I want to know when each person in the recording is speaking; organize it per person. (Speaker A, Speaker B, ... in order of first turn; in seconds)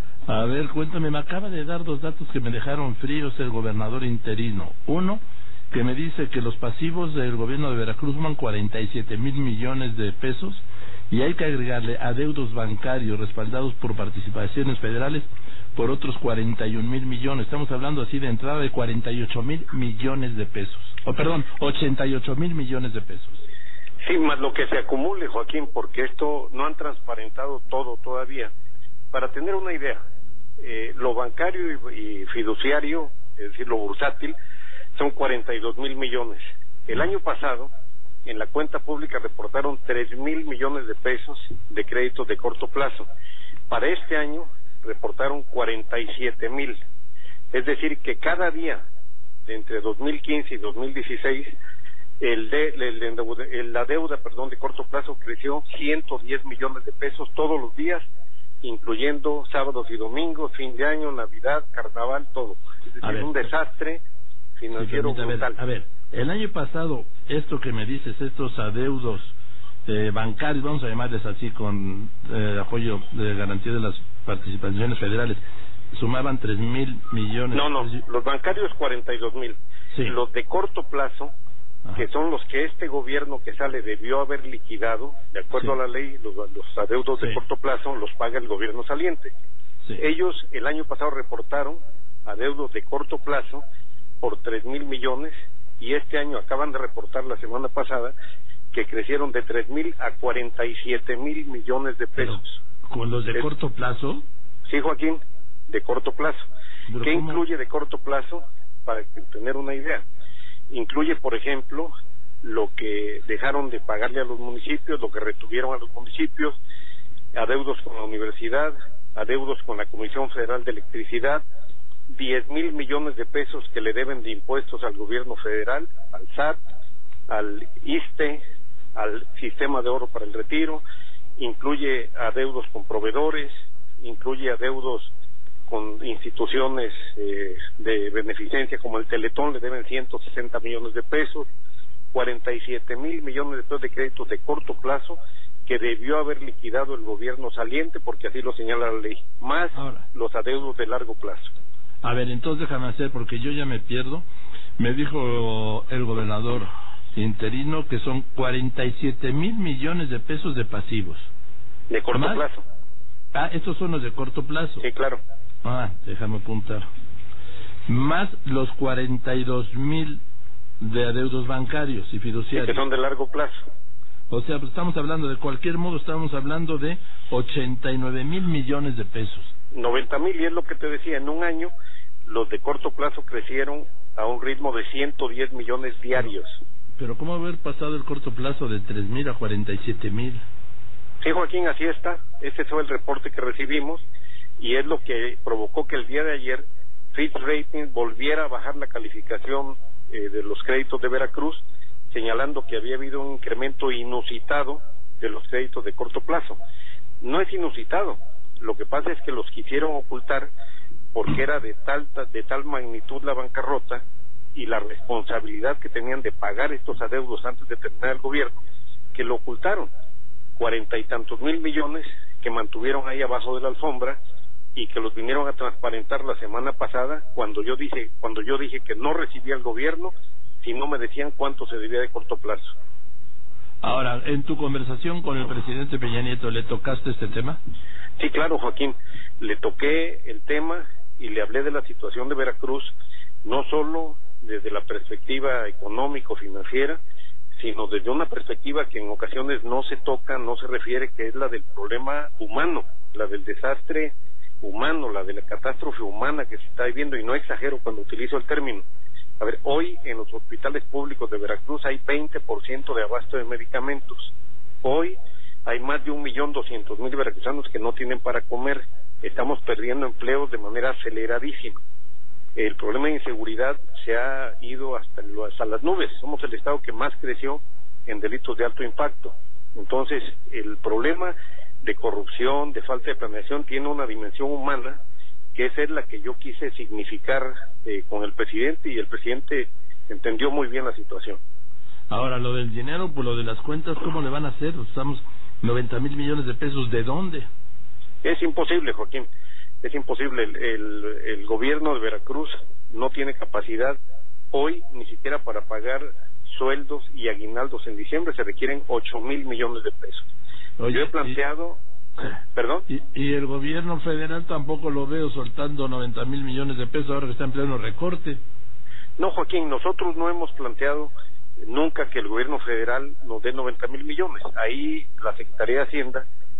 Speaker A: 0.3-23.4, 63.0-63.4, 64.7-69.3, 69.8-75.4, 75.9-77.9, 102.2-104.2, 106.9-107.4, 149.7-150.0, 152.0-154.2, 154.8-161.3, 162.1-162.4, 163.3-164.8, 165.6-166.8, 167.9-170.2, 170.8-172.8, 174.3-179.5, 187.0-190.4, 233.8-237.6, 292.1-297.5, 310.8-311.4, 312.9-318.4
Speaker B: 24.0-28.5, 29.1-30.0, 30.6-34.3, 34.9-37.7, 38.2-43.1, 43.7-46.8, 47.5-48.8, 49.5-51.5, 52.2-58.0, 58.6-64.0, 64.6-65.6, 77.5-81.3, 82.0-89.3, 90.0-93.6, 94.2-98.1, 98.7-102.6, 104.7-106.4, 107.0-110.0, 110.7-116.6, 117.3-121.4, 122.1-126.6, 127.3-128.4, 128.9-130.8, 131.4-135.1, 135.7-141.4, 142.1-151.5, 161.9-162.6, 164.8-165.2, 172.5-173.6, 179.7-181.7, 182.2-186.6, 191.2-194.0, 194.6-206.6, 207.2-210.5, 211.1-214.0, 214.5-218.6, 219.1-219.9, 220.6-224.2, 224.8-232.7, 238.2-242.9, 243.4-247.0, 247.6-258.8, 259.4-271.8, 272.6-285.0, 285.5-291.4, 298.2-299.3, 299.8-304.0, 304.5-310.3, 310.9-311.8, 312.5-312.9, 319.2-321.1, 321.6-326.2